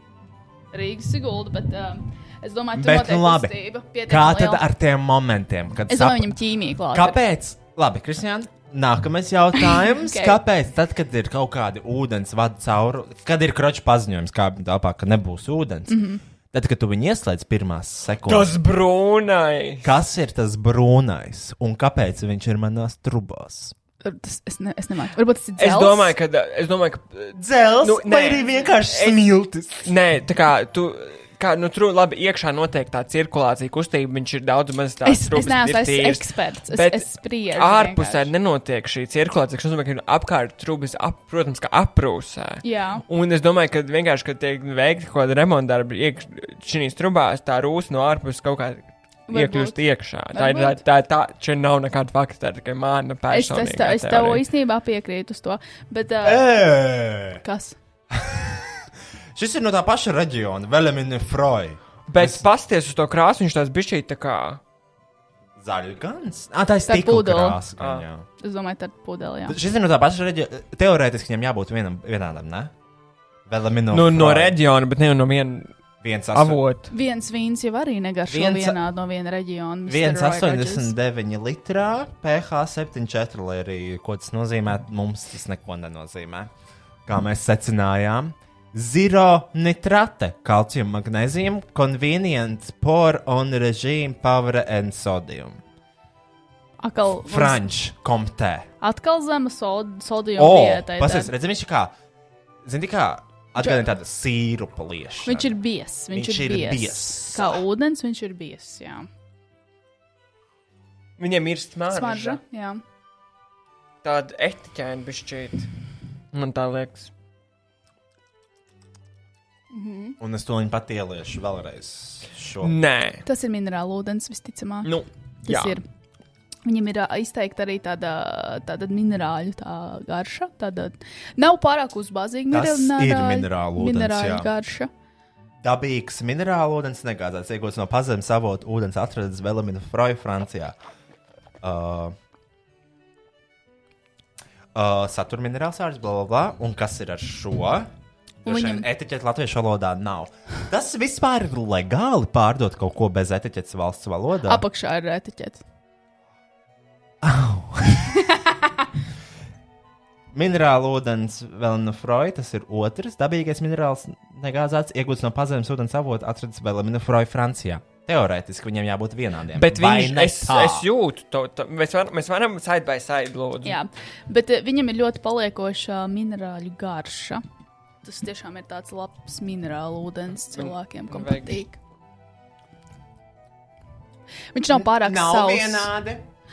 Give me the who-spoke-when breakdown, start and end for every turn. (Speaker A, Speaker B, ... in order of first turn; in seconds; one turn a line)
Speaker A: 0.7-4.6
Speaker B: 2.7-6.3
Speaker A: 5.9-7.2
Speaker B: 6.9-18.6
Speaker A: 9.6-10.4
Speaker A: 15.9-16.2
Speaker C: 18.2-19.9
Speaker B: 19.8-23.7
Speaker A: 24.0-26.1
Speaker C: 25.6-29.2
Speaker B: 27.3-29.9
Speaker C: 29.8-54.5
Speaker A: 35.0-38.3
Speaker A: 42.6-43.0
Speaker A: 49.3-49.8
Speaker A: 50.3-50.8
Speaker A: 53.3-56.5
Speaker B: 56.2-57.4
Speaker A: 57.4-57.8
Speaker B: 58.1-58.6
Speaker B: 59.3-62.4
Speaker C: 62.1-64.6
Speaker B: 65.6-68.2
Speaker A: 66.9-67.6
Speaker C: 67.8-68.0
Speaker A: 68.4-69.6
Speaker B: 69.5-72.7
Speaker B: 73.5-74.6
Speaker C: 73.9-75.7
Speaker B: 76.0-76.6
Speaker C: 76.3-76.9
Speaker A: 76.9-80.9
Speaker B: 78.3-78.8
Speaker B: 79.9-86.5
Speaker B: 87.0-95.6
Speaker A: 96.8-97.6
Speaker B: 97.2-98.7
Speaker A: 98.8-101.3
Speaker B: 100.3-101.9
Speaker B: 102.6-105.5
Speaker A: 103.6-103.9
Speaker A: 105.2-109.1
Speaker B: 106.1-107.6
Speaker C: 111.2-112.4
Speaker A: 111.9-112.8
Speaker C: 114.0-115.7
Speaker C: 116.3-117.1
Speaker A: 119.7-120.2
Speaker B: 120.2-122.8
Speaker C: 122.6-123.2
Speaker A: 123.2-124.9
Speaker C: 124.8-125.8
Speaker A: 125.4-125.8
Speaker A: 126.7-134.9
Speaker B: 132.5-134.5
Speaker B: 135.6-140.8
Speaker B: 141.6-142.1
Speaker B: 144.7-147.9
Speaker B: 148.4-154.6
Speaker A: 148.4-148.9
Speaker A: 154.4-155.6
Speaker B: 157.2-158.1
Speaker B: 160.3-170.8
Speaker C: 169.6-173.8
Speaker A: 173.6-177.4
Speaker A: 178.0-181.8
Speaker C: 180.5-181.6
Speaker A: 184.5-185.9
Speaker B: 184.7-186.2